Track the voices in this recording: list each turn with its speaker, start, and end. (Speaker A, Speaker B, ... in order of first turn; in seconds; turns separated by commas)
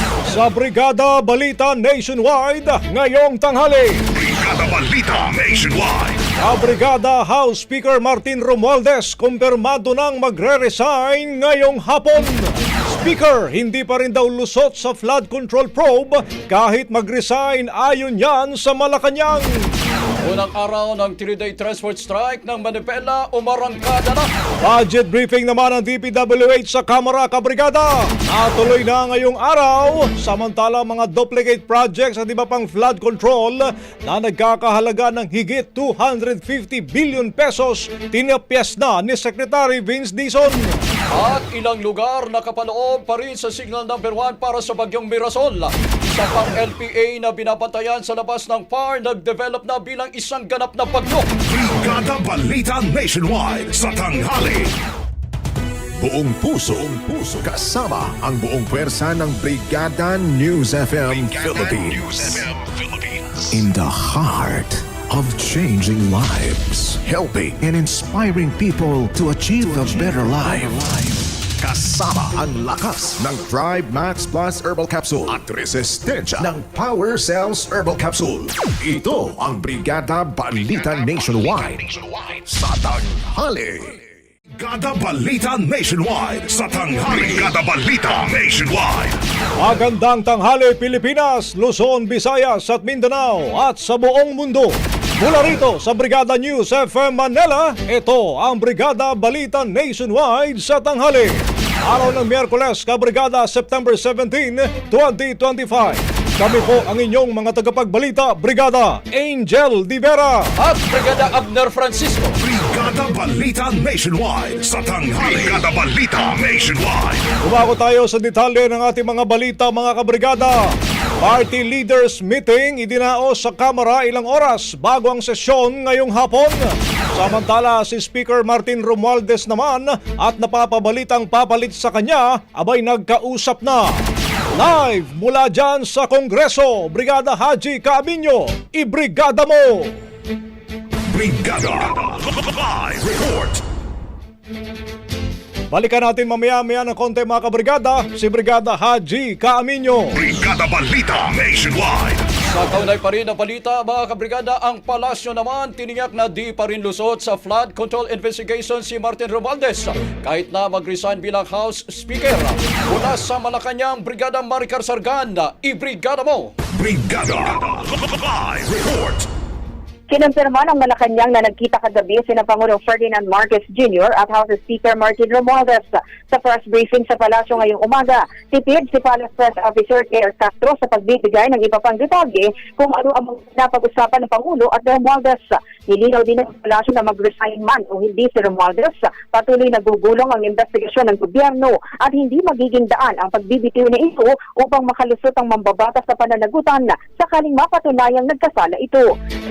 Speaker A: 0.3-4.0, Speaker B: 4.1-6.2, Speaker A: 6.4-19.7, Speaker C: 20.2-24.3, Speaker A: 24.6-40.7, Speaker C: 41.1-51.3, Speaker B: 51.5-54.7, Speaker D: 56.0-84.0, Speaker B: 84.6-89.2, Speaker A: 89.6-110.5, Speaker C: 110.6-112.4, Speaker B: 112.4-117.3, Speaker A: 117.4-120.7, Speaker A: 121.2-126.6, Speaker A: 127.1-133.9, Speaker A: 134.5-139.9, Speaker B: 141.1-143.6, Speaker A: 145.7-150.2, Speaker B: 150.1-152.2, Speaker C: 152.4-166.5, Speaker B: 166.7-169.2, Speaker E: 170.1-199.1